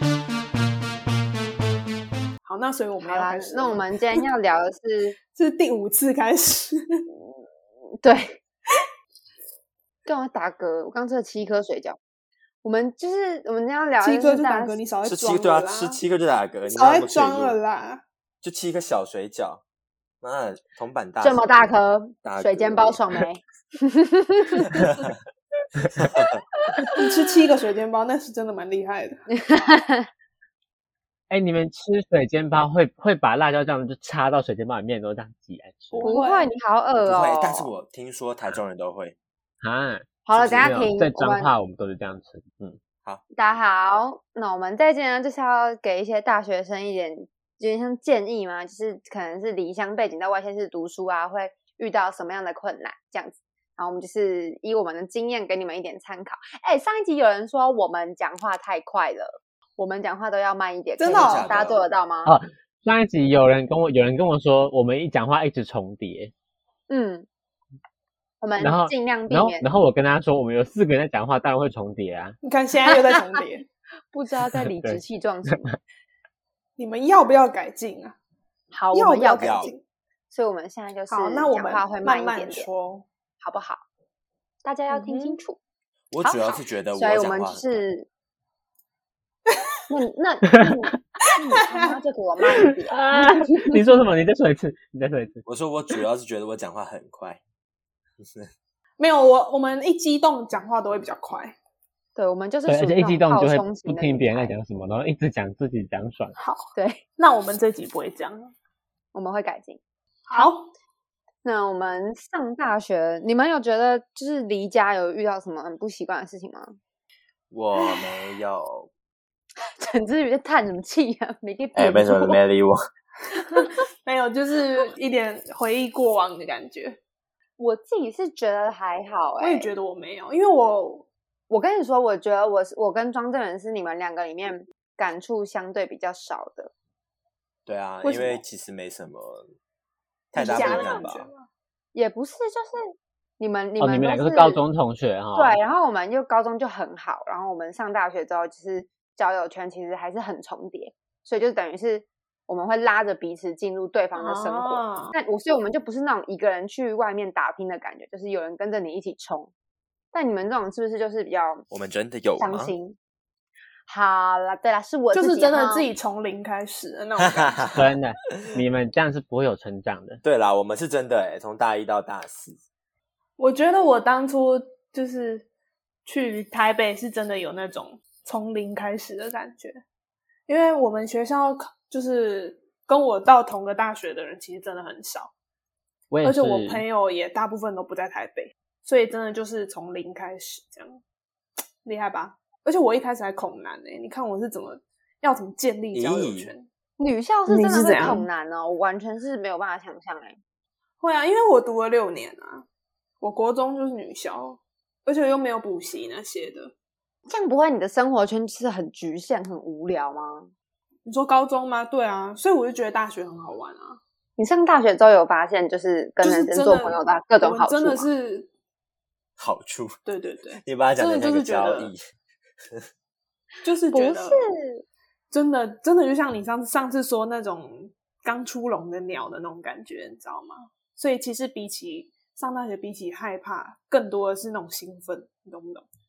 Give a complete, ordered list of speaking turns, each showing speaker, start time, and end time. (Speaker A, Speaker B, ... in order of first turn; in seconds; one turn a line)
Speaker A: 2.4-4.2
Speaker B: 3.0-5.2
Speaker A: 5.3-7.0
Speaker B: 8.0-8.4
Speaker B: 10.1-12.0
Speaker B: 12.6-14.8
Speaker A: 14.0-16.0
Speaker C: 15.0-17.6
Speaker A: 16.7-18.0
Speaker C: 18.4-19.6
Speaker C: 20.2-21.7
Speaker B: 21.2-25.1
Speaker C: 22.2-23.1
Speaker C: 24.8-25.1
Speaker C: 25.9-26.4
Speaker A: 26.9-29.2
Speaker B: 29.3-30.1
Speaker D: 31.3-36.1
Speaker A: 35.9-36.5
Speaker B: 36.0-37.7
Speaker C: 37.0-39.2
Speaker D: 39.6-40.1
Speaker B: 40.2-41.5
Speaker C: 40.3-40.8
Speaker D: 40.6-42.8
Speaker B: 43.3-62.3
Speaker A: 61.0-61.5
Speaker C: 61.1-61.8
Speaker D: 62.2-66.3
Speaker B: 66.9-67.2
Speaker B: 68.4-69.7
Speaker D: 68.6-72.4
Speaker A: 72.4-73.6
Speaker B: 74.1-75.7
Speaker D: 74.5-75.8
Speaker A: 76.8-78.1
Speaker B: 78.7-79.7
Speaker A: 78.9-79.8
Speaker C: 79.4-79.7
Speaker B: 80.3-82.7
Speaker A: 81.1-83.0
Speaker B: 83.4-83.8
Speaker B: 84.6-85.6
Speaker A: 84.9-85.4
Speaker C: 86.1-87.8
Speaker B: 86.2-88.1
Speaker B: 89.9-93.8
Speaker D: 90.5-90.9
Speaker D: 92.5-95.5
Speaker C: 95.5-97.4
Speaker C: 98.2-98.5
Speaker A: 99.0-101.5
Speaker B: 102.2-104.5
Speaker D: 102.7-106.4
Speaker A: 106.4-108.5
Speaker B: 106.8-107.0
Speaker B: 109.1-109.8
Speaker A: 110.3-110.7
Speaker B: 111.4-116.8
Speaker C: 117.5-118.9
Speaker B: 119.8-122.4
Speaker C: 121.7-122.8
Speaker A: 123.5-127.0
Speaker B: 127.6-129.7
Speaker A: 129.4-131.1
Speaker B: 131.5-136.7
Speaker C: 137.7-139.5
Speaker A: 138.0-138.4
Speaker C: 140.3-141.3
Speaker A: 140.3-141.4
Speaker B: 140.4-141.1
Speaker B: 141.9-142.8
Speaker B: 143.4-144.6
Speaker D: 143.8-145.6
Speaker B: 145.3-159.5
Speaker A: 154.2-155.1
Speaker B: 160.1-161.7
Speaker C: 161.7-162.7
Speaker B: 162.4-162.9
Speaker B: 163.9-165.9
Speaker A: 165.1-167.7
Speaker C: 167.4-167.8
Speaker D: 167.7-170.2
Speaker C: 170.2-172.6
Speaker A: 173.4-175.5
Speaker A: 176.1-179.8
Speaker A: 180.5-185.3
Speaker D: 186.1-186.8
Speaker A: 186.2-191.0
Speaker A: 191.8-196.7
Speaker C: 195.9-196.5
Speaker B: 197.0-200.4
Speaker A: 197.5-198.2
Speaker A: 201.0-202.7
Speaker A: 203.2-206.7
Speaker B: 207.3-210.5
Speaker A: 211.1-214.0
Speaker B: 214.4-218.1
Speaker A: 216.2-218.5
Speaker C: 219.4-219.9
Speaker A: 220.1-221.9
Speaker C: 220.6-222.0
Speaker A: 223.6-224.4
Speaker B: 223.9-224.8
Speaker A: 225.3-235.9